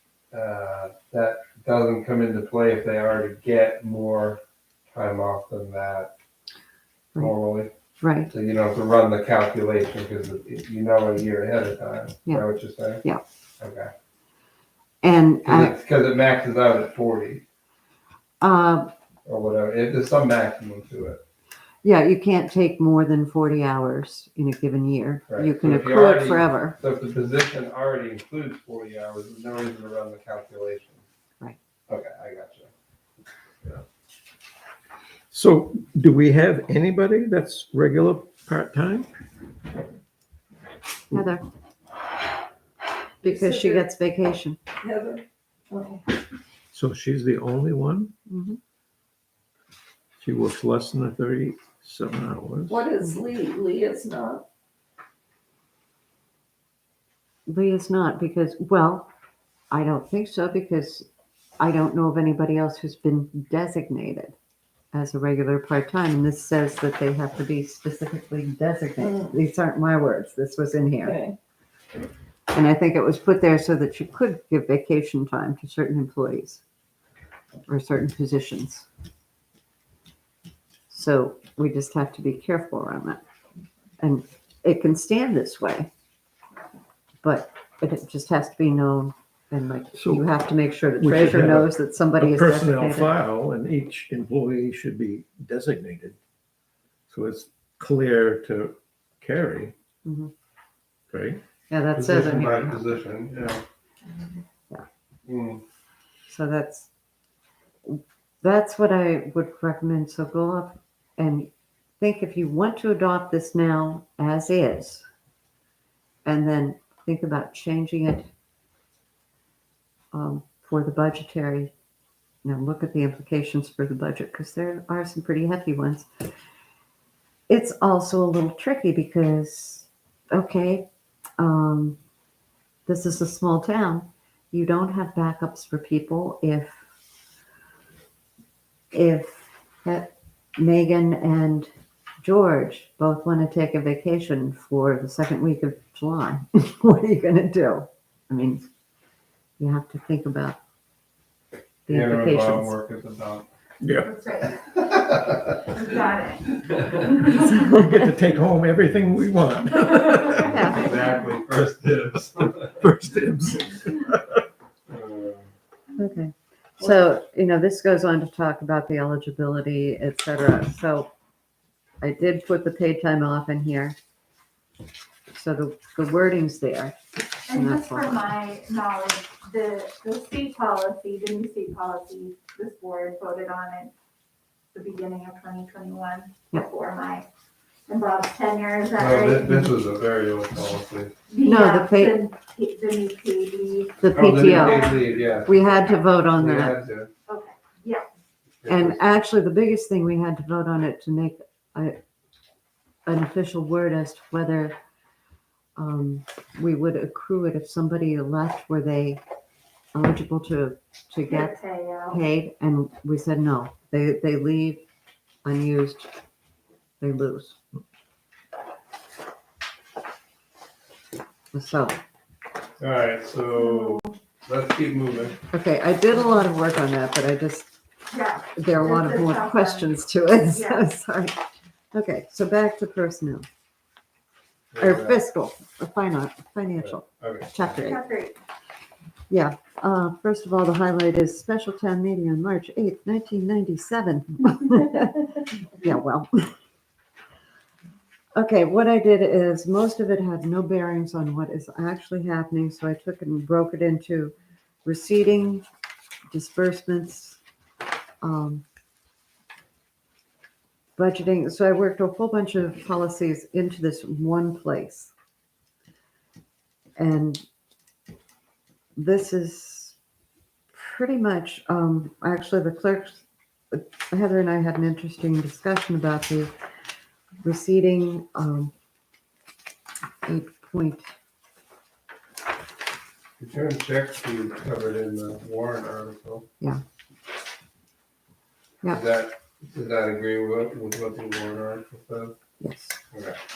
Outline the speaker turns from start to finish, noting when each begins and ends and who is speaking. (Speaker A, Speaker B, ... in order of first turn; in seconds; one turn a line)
Speaker A: 0.3-4.4
Speaker A: 4.9-6.1
Speaker A: 7.2-7.7
Speaker B: 8.0-8.3
Speaker A: 8.3-13.0
Speaker A: 13.6-13.9
Speaker B: 15.0-15.8
Speaker A: 15.4-17.4
Speaker B: 18.4-18.9
Speaker A: 19.2-21.2
Speaker B: 21.8-26.8
Speaker A: 25.3-31.0
Speaker A: 31.9-32.7
Speaker C: 35.3-39.1
Speaker B: 41.1-41.4
Speaker D: 43.2-43.8
Speaker B: 43.2-44.6
Speaker D: 44.8-46.0
Speaker C: 46.7-48.1
Speaker B: 48.3-48.6
Speaker C: 50.2-52.8
Speaker D: 52.7-54.4
Speaker B: 57.5-59.1
Speaker B: 59.7-61.1
Speaker B: 61.6-64.3
Speaker B: 64.9-71.2
Speaker D: 71.0-71.3
Speaker B: 72.5-76.6
Speaker B: 77.7-78.9
Speaker B: 80.9-83.2
Speaker B: 84.0-85.9
Speaker B: 87.2-93.1
Speaker C: 90.0-90.3
Speaker C: 91.0-96.2
Speaker C: 97.1-99.7
Speaker B: 100.0-100.3
Speaker C: 101.1-101.4
Speaker B: 101.7-103.0
Speaker A: 101.9-103.6
Speaker A: 105.2-105.6
Speaker B: 106.3-106.9
Speaker B: 107.8-111.5
Speaker B: 112.0-115.0
Speaker B: 116.2-118.3
Speaker B: 120.1-121.7
Speaker B: 122.4-126.2
Speaker B: 127.5-130.8
Speaker B: 131.4-132.0
Speaker B: 132.8-136.8
Speaker B: 138.9-141.7
Speaker B: 142.2-148.7
Speaker B: 149.6-150.6
Speaker B: 151.8-152.8
Speaker A: 151.9-153.5
Speaker C: 153.8-154.1
Speaker E: 154.0-154.6
Speaker A: 154.7-155.6
Speaker E: 155.7-157.3
Speaker C: 157.3-160.7
Speaker A: 160.4-162.7
Speaker B: 160.4-160.9
Speaker C: 162.1-164.4
Speaker A: 164.9-165.5
Speaker B: 166.0-171.1
Speaker B: 172.0-173.9
Speaker B: 175.3-178.3
Speaker E: 177.5-183.9
Speaker E: 184.7-187.2
Speaker E: 187.9-189.7
Speaker A: 189.0-191.1
Speaker E: 191.3-195.5
Speaker B: 191.4-192.2
Speaker B: 194.0-196.8
Speaker A: 194.1-197.1
Speaker E: 197.3-198.1
Speaker A: 198.6-199.0
Speaker B: 198.7-201.9
Speaker B: 203.1-204.7
Speaker B: 205.8-209.2
Speaker B: 209.9-214.8
Speaker E: 211.2-212.2
Speaker B: 215.4-216.1
Speaker B: 217.0-217.6
Speaker B: 221.5-222.0
Speaker A: 222.8-225.4
Speaker E: 223.6-224.1
Speaker B: 225.5-227.7
Speaker E: 228.1-229.9
Speaker B: 228.5-231.4
Speaker E: 230.5-230.8
Speaker B: 231.9-233.5
Speaker A: 234.7-235.2
Speaker B: 234.8-238.0
Speaker A: 236.8-237.8
Speaker E: 237.8-238.4
Speaker B: 239.3-246.5
Speaker B: 248.3-254.3
Speaker B: 254.8-255.6
Speaker B: 256.3-257.4
Speaker B: 258.2-258.6
Speaker B: 261.0-265.1
Speaker B: 267.0-267.4
Speaker B: 268.9-269.9
Speaker B: 270.7-276.5
Speaker B: 277.4-278.7
Speaker B: 280.2-281.1
Speaker A: 283.4-286.4
Speaker A: 288.9-292.4
Speaker B: 292.6-293.0
Speaker A: 293.1-293.4